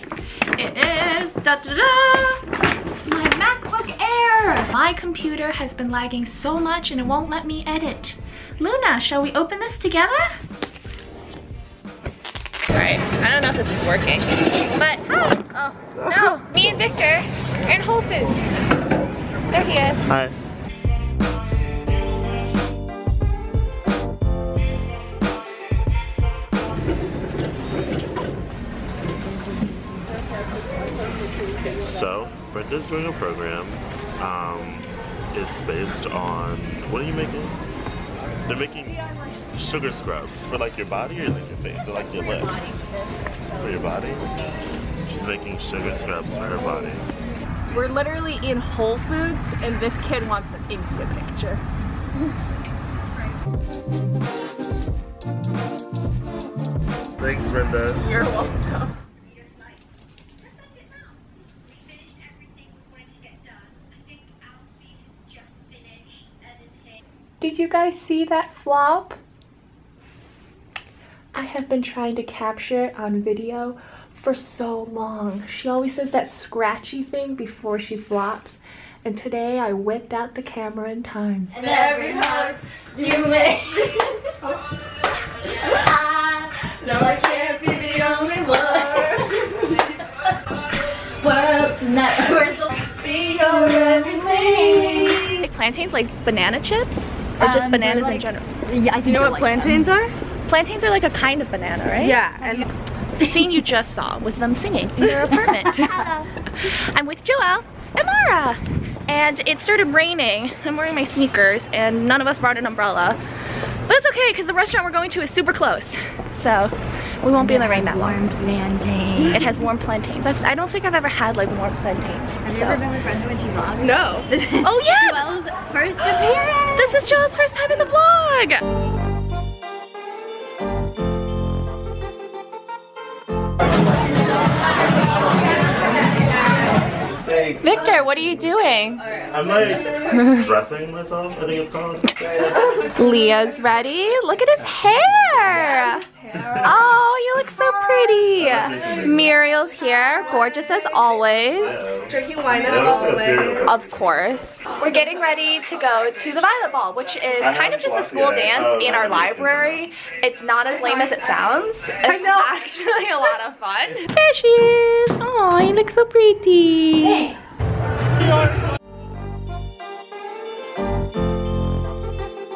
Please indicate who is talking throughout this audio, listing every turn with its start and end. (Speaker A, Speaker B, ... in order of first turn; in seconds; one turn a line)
Speaker A: 0.5-2.5
Speaker A: 3.0-10.4
Speaker A: 12.7-18.4
Speaker A: 19.5-20.1
Speaker B: 20.1-20.4
Speaker B: 31.8-37.6
Speaker B: 38.5-39.0
Speaker B: 39.5-42.8
Speaker B: 43.5-44.3
Speaker B: 45.0-47.1
Speaker A: 47.7-51.6
Speaker B: 57.2-58.0
Speaker A: 58.0-58.9
Speaker A: 67.4-69.2
Speaker A: 71.3-81.6
Speaker C: 81.5-84.3
Speaker C: 85.5-89.8
Speaker C: 91.2-95.2
Speaker D: 93.0-95.2
Speaker A: 95.3-98.5
Speaker C: 97.4-99.9
Speaker D: 99.0-100.1
Speaker A: 100.5-102.2
Speaker D: 102.0-102.7
Speaker C: 102.4-102.7
Speaker A: 103.2-113.2
Speaker A: 113.9-118.2
Speaker C: 117.4-119.5
Speaker A: 119.3-122.8
Speaker C: 122.5-126.9
Speaker D: 123.8-124.3
Speaker A: 124.6-125.4
Speaker A: 126.8-128.6
Speaker A: 137.6-139.0
Speaker B: 139.3-142.2
Speaker A: 140.1-140.4
Speaker A: 142.9-146.1
Speaker A: 146.6-151.8
Speaker B: 148.4-149.3
Speaker B: 151.6-153.8
Speaker D: 152.1-153.6
Speaker A: 153.7-167.3
Speaker B: 157.4-159.8
Speaker D: 162.1-162.5